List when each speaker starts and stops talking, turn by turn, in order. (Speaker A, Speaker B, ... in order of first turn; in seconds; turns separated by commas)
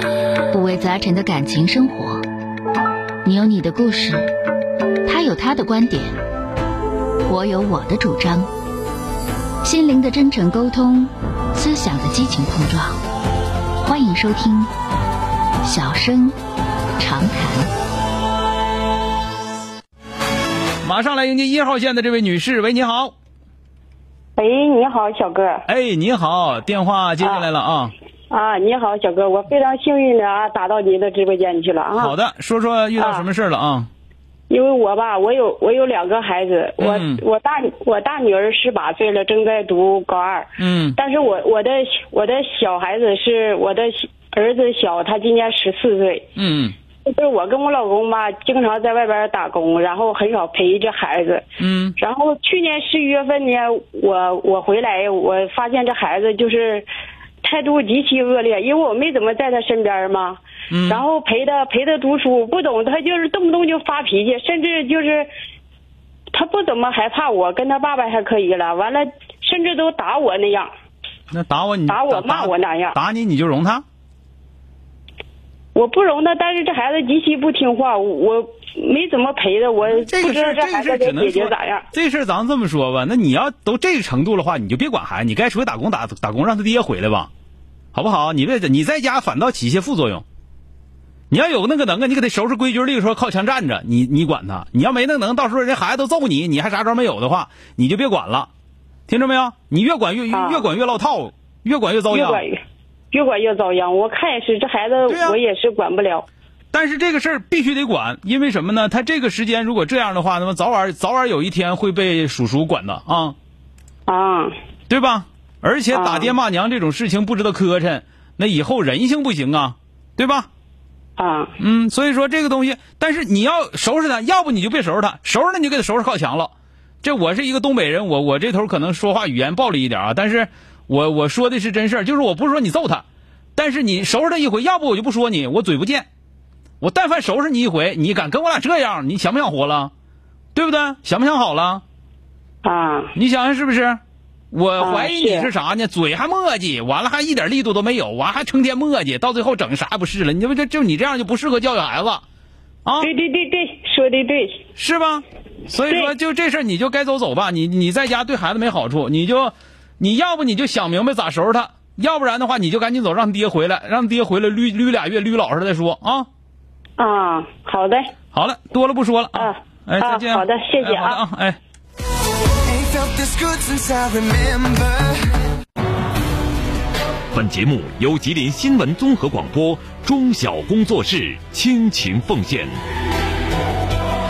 Speaker A: 0.5-2.2, Speaker A: 3.2-4.3, Speaker A: 5.1-6.2, Speaker A: 7.3-8.5, Speaker A: 9.6-13.0, Speaker A: 13.8-14.7, Speaker A: 15.6-16.4, Speaker A: 17.0-17.7, Speaker B: 20.8-23.1, Speaker C: 24.4-25.6, Speaker B: 25.7-27.9, Speaker C: 27.2-27.5, Speaker C: 28.3-32.1, Speaker B: 32.0-33.9, Speaker C: 33.0-33.3, Speaker C: 34.5-46.3, Speaker B: 36.8-37.2, Speaker B: 40.6-41.0, Speaker B: 46.4-46.8, Speaker C: 47.0-51.5, Speaker B: 51.6-52.0, Speaker C: 52.0-56.9, Speaker C: 57.4-65.3, Speaker B: 60.7-61.0, Speaker C: 66.3-70.7, Speaker B: 71.3-73.8, Speaker C: 71.9-73.0, Speaker C: 75.7-81.9, Speaker B: 79.8-87.3, Speaker B: 87.9-90.2, Speaker B: 91.3-98.5, Speaker B: 99.1-102.4, Speaker C: 100.3-100.7, Speaker C: 102.1-102.6, Speaker C: 103.1-106.3, Speaker B: 105.1-105.4, Speaker B: 106.7-113.3, Speaker C: 114.1-114.5, Speaker B: 114.9-120.5, Speaker C: 115.9-116.3, Speaker C: 121.2-121.5, Speaker B: 121.6-126.5, Speaker B: 127.0-133.0, Speaker B: 133.6-136.1, Speaker B: 136.8-139.9, Speaker B: 140.6-141.8, Speaker C: 142.6-143.1, Speaker B: 143.2-144.0, Speaker B: 144.5-152.2, Speaker C: 144.8-145.5, Speaker C: 153.0-154.6, Speaker B: 154.8-166.3, Speaker C: 155.9-156.1, Speaker C: 167.0-168.1, Speaker B: 168.3-171.6, Speaker C: 169.3-171.2, Speaker D: 172.7-175.2, Speaker E: 177.3-182.7